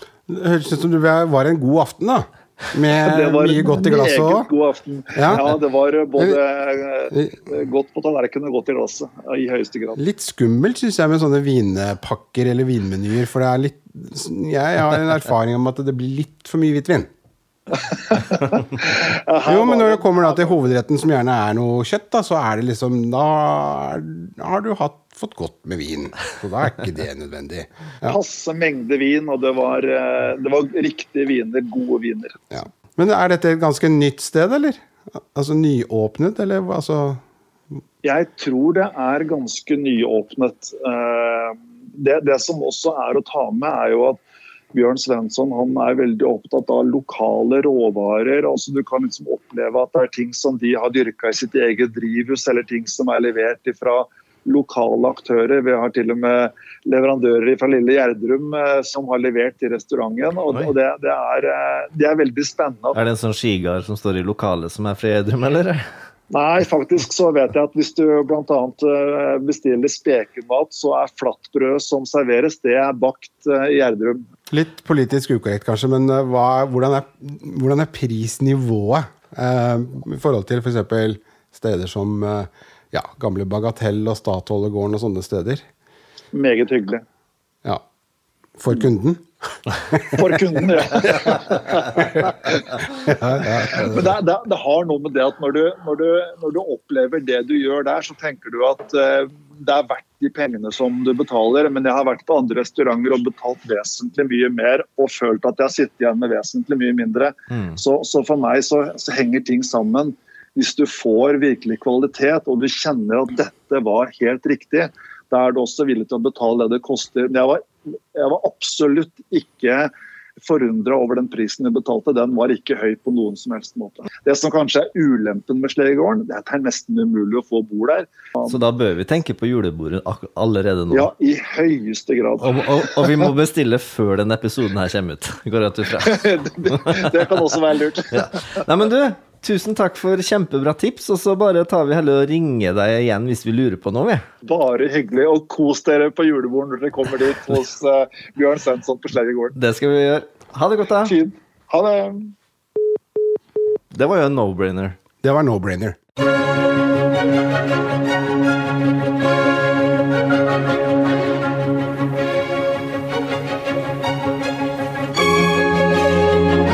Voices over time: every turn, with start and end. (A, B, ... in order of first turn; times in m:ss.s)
0:00.3-0:04.5 A
0:03.0-0:10.0 B
0:05.2-0:05.4 A
0:07.1-0:07.4 A
0:10.0-0:17.1 A
0:17.7-0:20.6 B
0:19.4-0:28.2 A
0:28.0-0:32.4 B
0:32.5-0:37.2 A
0:38.0-0:44.2 B
0:44.7-1:03.0 B
1:02.9-1:05.9 C
1:06.3-1:14.2 B
1:14.5-1:25.6 A
1:26.3-1:27.0 B
1:28.6-1:31.4 A
1:30.1-1:59.9 B
1:31.9-1:34.1 A
1:47.5-1:47.8 C
2:00.4-2:08.6 B
2:08.4-2:11.1 C
2:10.9-2:13.3 B
2:12.4-2:17.3 C
2:16.0-2:18.6 B
2:18.1-2:24.2 C
2:24.4-2:29.6 B
2:29.5-2:31.1 C
2:31.0-2:32.3 B
2:33.9-2:35.0 C
2:35.2-2:36.0 A